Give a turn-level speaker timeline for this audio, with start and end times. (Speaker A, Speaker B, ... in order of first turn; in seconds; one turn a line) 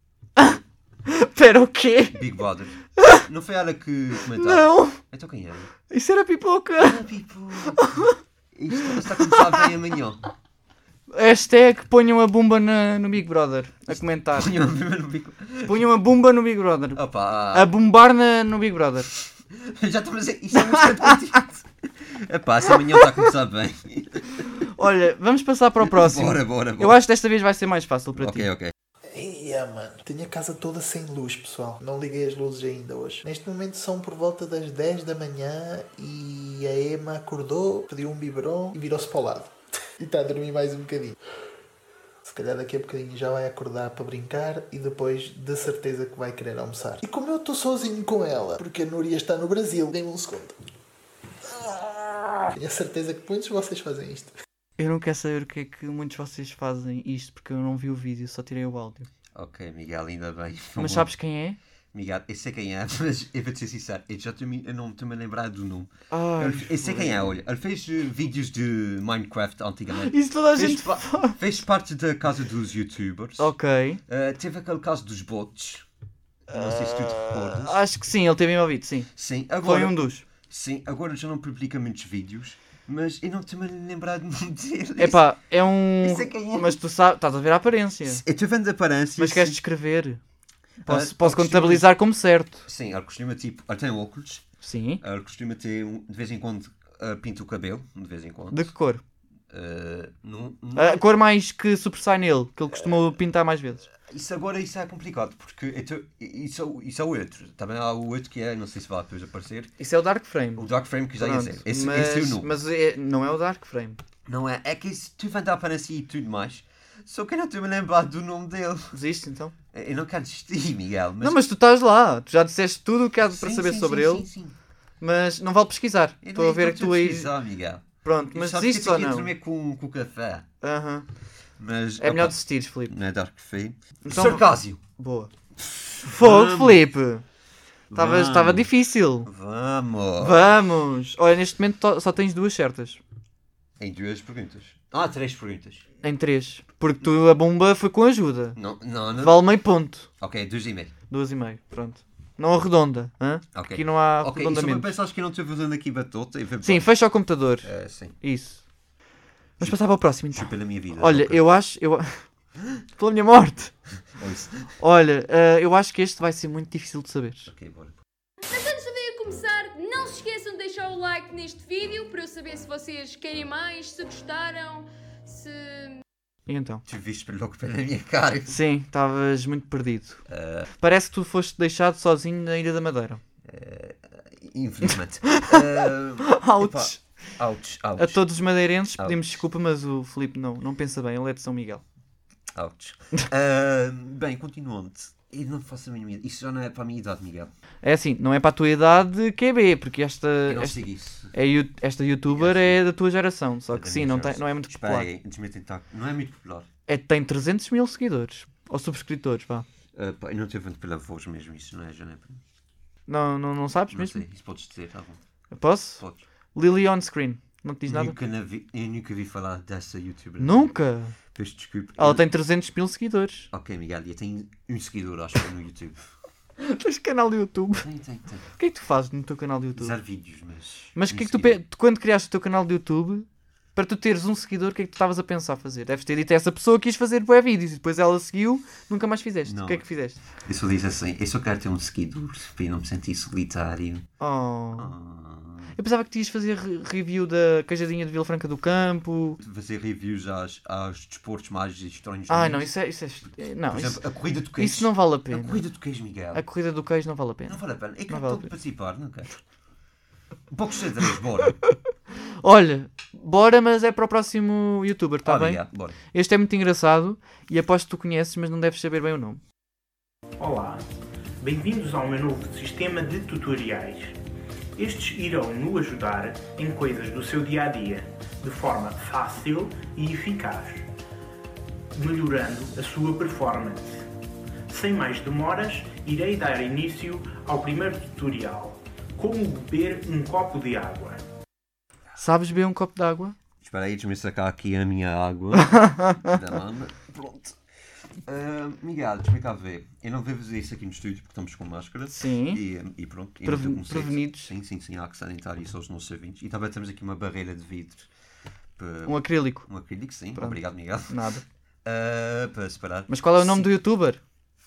Speaker A: 0.4-2.2
Speaker B: 2.1-5.7
Speaker A: 4.3-5.0
Speaker A: 5.9-7.0
Speaker B: 6.8-10.2
Speaker A: 7.7-8.1
Speaker A: 8.8-9.7
Speaker A: 11.1-14.5
Speaker B: 13.9-15.9
Speaker A: 15.7-17.0
Speaker B: 16.9-17.7
Speaker A: 17.5-19.1
Speaker B: 19.6-24.5
Speaker A: 20.7-21.1
Speaker A: 24.8-28.5
Speaker B: 25.8-27.0
Speaker B: 28.2-28.7
Speaker C: 29.1-41.2
Speaker C: 42.2-50.6
Speaker C: 51.5-51.9
Speaker C: 52.5-54.3
Speaker A: 54.8-59.1
Speaker B: 59.4-61.1
Speaker A: 60.8-61.6
Speaker B: 61.9-73.5
Speaker A: 66.1-67.4
Speaker A: 70.0-71.4
Speaker A: 73.4-74.0
Speaker B: 74.1-75.8
Speaker B: 76.5-77.8
Speaker A: 76.5-79.1
Speaker B: 79.2-85.2
Speaker A: 79.6-80.3
Speaker A: 85.0-88.2
Speaker B: 86.0-86.8
Speaker B: 88.1-89.6
Speaker A: 89.2-90.2
Speaker A: 90.8-92.7
Speaker B: 90.9-91.9
Speaker B: 92.7-94.5
Speaker A: 94.6-95.0
Speaker B: 95.0-98.7
Speaker A: 98.5-99.0
Speaker B: 99.5-101.0
Speaker A: 100.8-103.9
Speaker B: 104.0-109.8
Speaker A: 109.8-110.7
Speaker B: 110.6-112.5
Speaker A: 111.2-114.0
Speaker B: 114.3-119.0
Speaker A: 118.9-119.5
Speaker B: 119.7-121.4
Speaker A: 121.2-124.3
Speaker B: 123.3-124.5
Speaker A: 125.0-127.3
Speaker B: 126.2-130.5
Speaker A: 128.0-129.3
Speaker A: 130.6-131.1
Speaker B: 131.6-134.8
Speaker A: 132.0-132.9
Speaker A: 134.1-134.4
Speaker A: 135.0-135.3
Speaker B: 135.6-136.8
Speaker A: 136.1-137.2
Speaker B: 137.9-138.7
Speaker A: 137.9-139.3
Speaker B: 139.2-140.5
Speaker A: 140.2-143.0
Speaker B: 143.8-145.9
Speaker A: 146.0-148.6
Speaker B: 148.6-149.4
Speaker A: 149.2-150.1
Speaker B: 150.2-150.9
Speaker A: 151.1-154.9
Speaker B: 153.5-156.9
Speaker A: 156.6-157.7
Speaker B: 157.6-158.2
Speaker A: 158.2-158.6
Speaker A: 159.6-162.2
Speaker B: 160.3-161.4
Speaker A: 163.0-163.7
Speaker B: 164.2-164.7
Speaker A: 164.8-167.5
Speaker B: 167.5-168.0
Speaker D: 168.5-176.0
Speaker A: 176.5-176.8
Speaker B: 176.9-178.6
Speaker A: 178.5-180.2
Speaker B: 180.3-180.7
Speaker A: 180.8-183.2
Speaker B: 183.4-188.2
Speaker A: 184.9-185.6
Speaker A: 186.3-187.0
Speaker A: 188.0-191.8
Speaker B: 192.6-197.5
Speaker A: 197.8-200.8
Speaker B: 200.5-201.3
Speaker A: 201.3-205.1
Speaker B: 202.3-202.8
Speaker B: 203.7-206.7
Speaker A: 206.9-209.7
Speaker B: 209.9-212.4
Speaker A: 213.1-214.2
Speaker B: 213.9-215.2
Speaker A: 215.5-216.0
Speaker A: 216.6-218.2
Speaker B: 217.9-220.7
Speaker A: 220.4-221.2
Speaker B: 221.3-222.2
Speaker A: 222.0-223.5
Speaker B: 223.5-226.1
Speaker A: 226.6-227.9
Speaker B: 227.8-228.5
Speaker A: 228.6-230.0
Speaker B: 229.8-231.6
Speaker A: 231.0-240.2
Speaker B: 239.5-239.9
Speaker B: 240.4-244.1
Speaker A: 244.2-244.9
Speaker B: 244.8-245.7
Speaker A: 245.8-249.4
Speaker B: 249.4-252.7
Speaker A: 252.3-254.0
Speaker B: 253.7-256.4
Speaker A: 254.6-255.6
Speaker A: 256.3-258.5
Speaker B: 257.5-259.4
Speaker B: 260.5-261.6
Speaker A: 262.4-265.6
Speaker B: 265.2-266.0
Speaker A: 266.1-269.4
Speaker E: 270.4-270.8
Speaker E: 271.4-274.2
Speaker E: 274.8-280.9
Speaker E: 281.9-284.1
Speaker E: 284.7-291.2
Speaker A: 292.2-293.4
Speaker B: 293.6-297.6
Speaker A: 295.6-296.3
Speaker B: 298.3-308.1
Speaker A: 302.1-302.6
Speaker A: 303.4-304.5
Speaker B: 308.8-311.2
Speaker A: 309.1-309.7
Speaker A: 310.4-311.4
Speaker B: 311.9-313.7
Speaker A: 313.1-314.2